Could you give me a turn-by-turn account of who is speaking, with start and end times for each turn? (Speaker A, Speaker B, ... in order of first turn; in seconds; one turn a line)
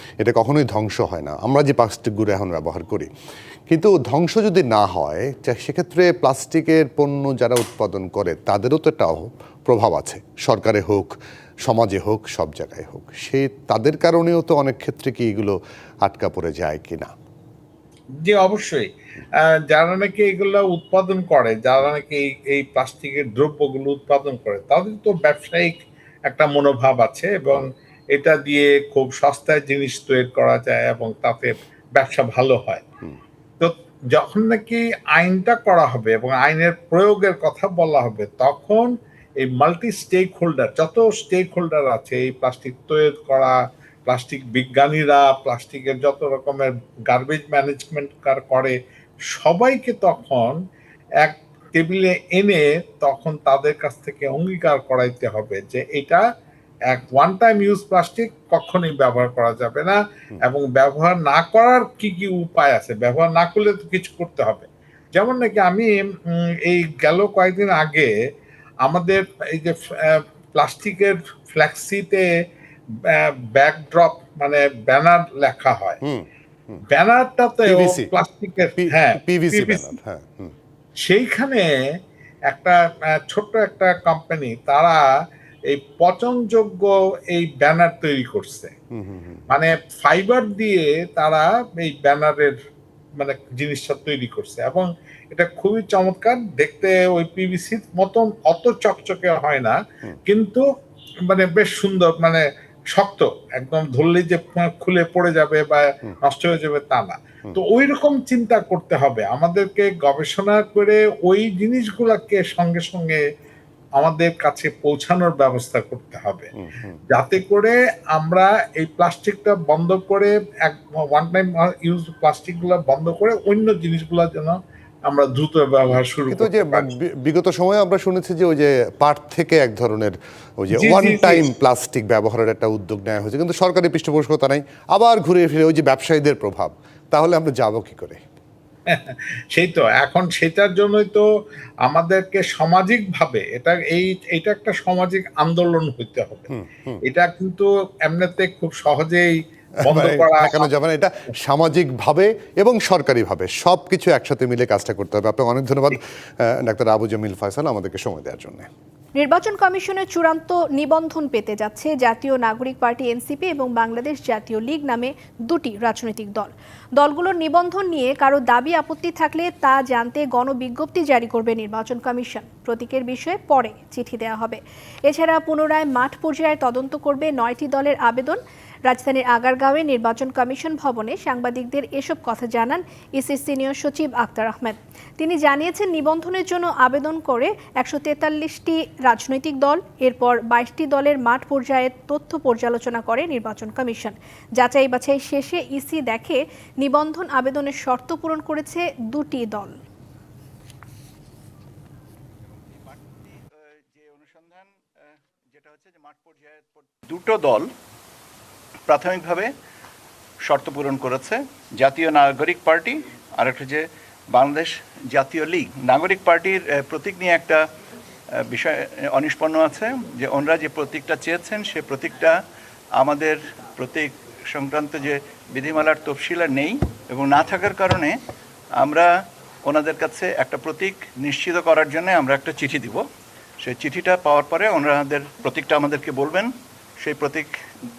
Speaker A: 0.2-3.1
Speaker A: 3.7-11.2
Speaker A: 11.7-17.1
Speaker B: 18.2-18.9
Speaker B: 19.7-32.9
Speaker B: 33.6-43.5
Speaker B: 44.1-48.8
Speaker B: 49.3-50.6
Speaker B: 51.2-56.2
Speaker B: 56.9-68.1
Speaker B: 68.8-72.2
Speaker B: 73.1-76.0
Speaker A: 76.0-76.8
Speaker B: 76.9-80.0
Speaker A: 77.7-78.1
Speaker A: 78.8-80.5
Speaker B: 81.1-81.7
Speaker B: 82.5-85.0
Speaker B: 85.7-88.7
Speaker A: 88.9-89.4
Speaker B: 89.5-92.5
Speaker B: 93.2-100.6
Speaker B: 101.3-102.4
Speaker B: 102.9-113.2
Speaker B: 114.0-116.5
Speaker A: 116.6-117.0
Speaker B: 117.1-126.9
Speaker A: 126.3-138.2
Speaker B: 130.8-131.4
Speaker B: 138.9-141.2
Speaker B: 141.8-146.5
Speaker A: 146.5-147.0
Speaker B: 147.1-150.7
Speaker A: 149.9-158.7
Speaker C: 159.2-199.8
Speaker D: 202.5-204.8
Speaker D: 205.5-207.7
Speaker D: 208.9-209.5
Speaker D: 210.4-217.7
Speaker D: 218.4-222.4
Speaker D: 223.0-228.2
Speaker D: 228.8-229.1
Speaker D: 229.7-233.1
Speaker D: 233.6-237.6